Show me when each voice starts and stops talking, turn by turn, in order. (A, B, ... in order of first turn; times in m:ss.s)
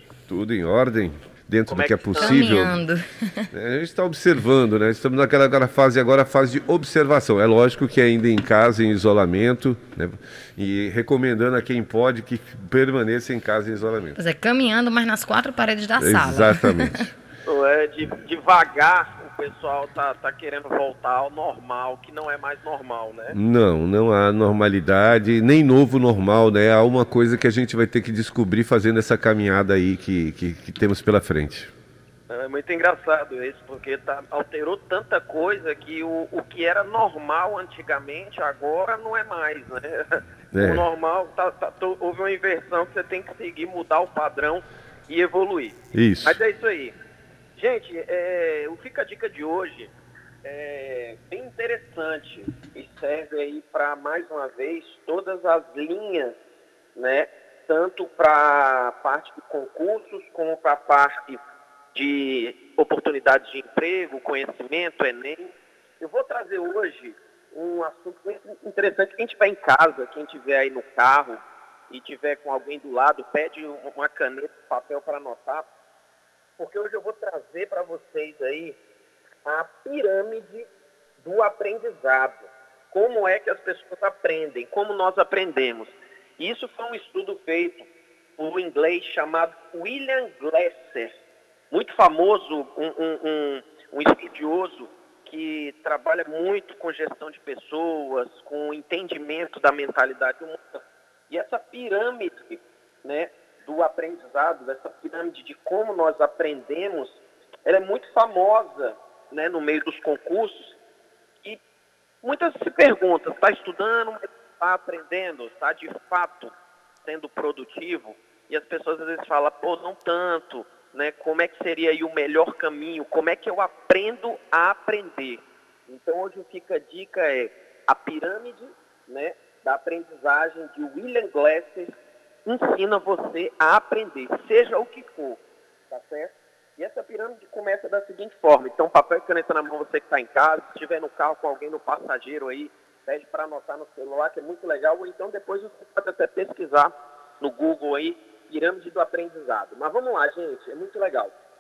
0:00.3-0:02.8 A
0:01.7-0:02.4 B
0:02.2-0:03.0 C
0:03.5-0:14.2 A
0:14.2-0:17.0 C
0:16.0-0:17.0 A
0:17.5-0:23.3 B
0:23.3-0:31.7 A
0:32.3-0:46.9 B
0:40.5-0:40.8 A
0:45.9-0:46.4 A
0:47.5-0:49.9 B
0:50.4-0:56.4 B
0:57.0-1:01.4 B
1:01.9-1:11.4 B
1:11.9-1:15.7 B
1:16.6-1:18.8 B
1:19.4-1:20.7 B
1:21.2-1:27.9 B
1:28.4-1:31.1 B
1:31.7-1:50.8 B
1:52.2-2:11.9 B
2:12.4-2:31.3 B